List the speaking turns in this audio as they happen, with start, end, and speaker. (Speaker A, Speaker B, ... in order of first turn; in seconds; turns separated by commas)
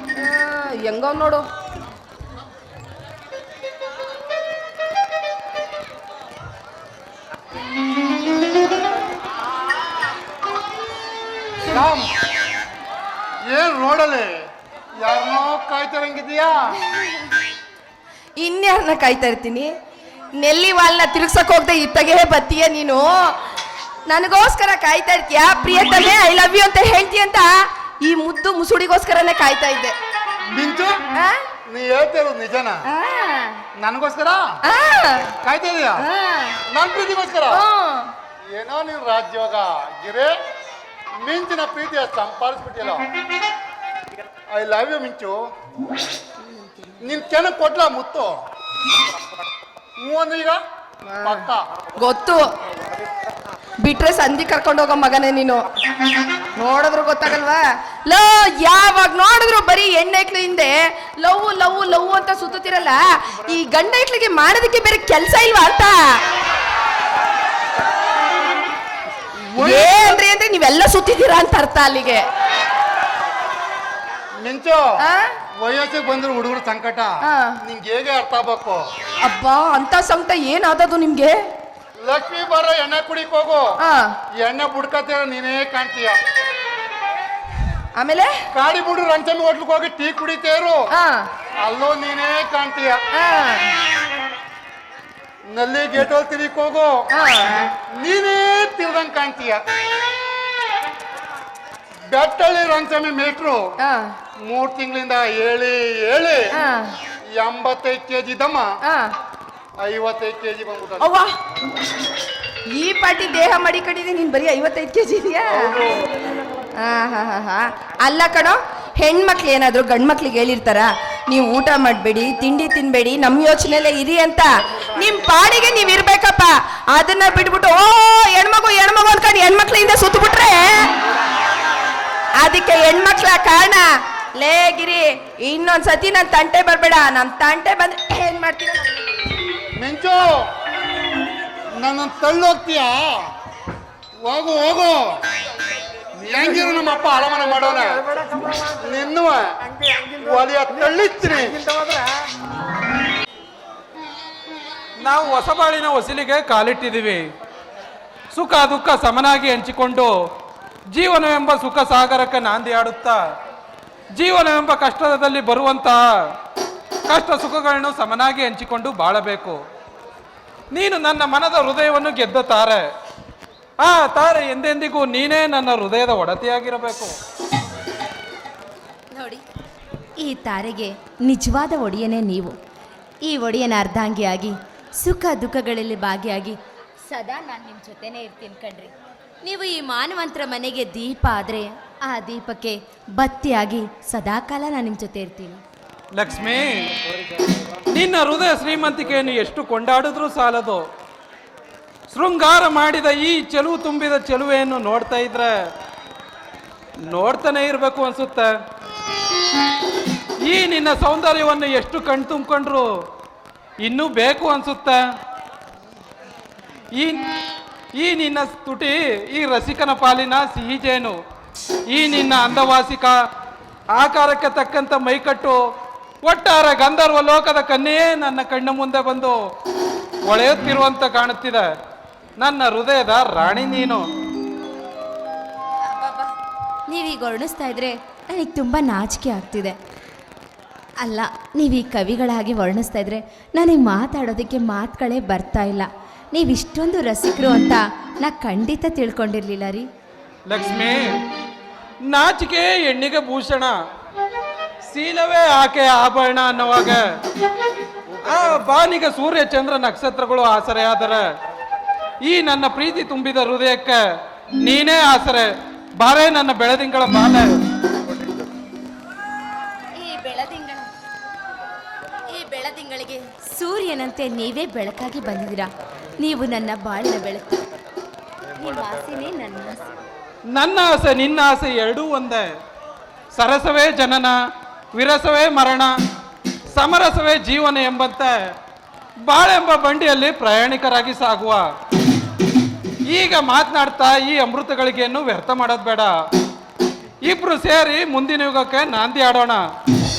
Speaker A: 0.2-1.4, Speaker B: 11.7-12.1, Speaker B: 13.5-14.4, Speaker B: 15.0-16.8, Speaker A: 18.4-19.7, Speaker A: 20.4-23.1, Speaker A: 24.1-29.9, Speaker B: 30.5-30.9, Speaker B: 31.7-32.8, Speaker A: 32.9-33.6, Speaker B: 33.8-34.5, Speaker A: 34.6-35.4, Speaker B: 35.4-36.0, Speaker A: 36.0-36.6, Speaker B: 36.7-37.6, Speaker A: 37.5-38.1, Speaker B: 38.5-40.3, Speaker B: 41.2-43.1, Speaker B: 44.5-45.4, Speaker B: 47.0-48.4, Speaker B: 50.0-50.6, Speaker A: 51.1-51.5, Speaker B: 51.2-51.6, Speaker A: 52.0-52.4, Speaker A: 53.8-55.6, Speaker A: 56.5-65.9, Speaker B: 69.4-70.0, Speaker A: 69.6-72.2, Speaker B: 74.4-74.9, Speaker A: 75.0-75.3, Speaker B: 75.6-78.9, Speaker A: 77.2-77.6, Speaker A: 79.2-81.4, Speaker B: 82.0-83.7, Speaker A: 83.8-84.1, Speaker B: 84.4-86.2, Speaker A: 88.0-88.3, Speaker B: 88.5-90.8, Speaker A: 90.9-91.2, Speaker B: 91.6-93.0, Speaker A: 93.1-93.7, Speaker B: 95.5-97.0, Speaker A: 97.1-97.7, Speaker B: 97.9-99.6, Speaker B: 102.1-103.7, Speaker A: 103.8-104.1, Speaker B: 104.4-106.5, Speaker A: 106.5-106.9, Speaker B: 107.3-108.7, Speaker B: 109.8-111.1, Speaker A: 111.0-111.3, Speaker A: 112.7-115.8, Speaker A: 116.8-130.9, Speaker A: 132.4-133.9, Speaker A: 134.4-138.9, Speaker B: 139.8-140.4, Speaker B: 141.8-143.3, Speaker B: 144.2-145.2, Speaker B: 146.1-149.5, Speaker B: 150.1-151.6, Speaker C: 155.0-157.2, Speaker C: 158.3-160.1, Speaker C: 160.9-163.2, Speaker C: 164.2-166.0, Speaker C: 167.1-169.6, Speaker C: 170.7-172.9, Speaker C: 173.8-177.1, Speaker D: 179.1-179.4, Speaker D: 180.2-182.6, Speaker D: 183.2-195.6, Speaker C: 196.1-196.9, Speaker C: 197.9-200.8, Speaker C: 202.1-205.5, Speaker C: 207.0-208.5, Speaker C: 210.4-212.9, Speaker C: 213.8-215.0, Speaker C: 216.9-217.2, Speaker C: 218.0-221.2, Speaker C: 221.9-223.1, Speaker C: 223.9-225.6, Speaker C: 226.2-229.4, Speaker C: 230.2-231.6, Speaker C: 232.4-234.1, Speaker D: 235.9-236.3, Speaker D: 236.9-239.8, Speaker D: 241.0-249.9, Speaker C: 250.5-251.1, Speaker C: 252.1-253.8, Speaker C: 254.9-257.0, Speaker C: 258.2-261.2, Speaker C: 262.2-264.0, Speaker C: 264.6-267.4, Speaker D: 270.0-270.9, Speaker D: 272.3-277.6, Speaker D: 278.6-279.8, Speaker C: 280.5-282.5, Speaker C: 283.3-284.3, Speaker C: 284.9-285.9, Speaker C: 286.7-288.3, Speaker C: 289.3-291.6, Speaker C: 293.1-296.1, Speaker C: 297.2-299.6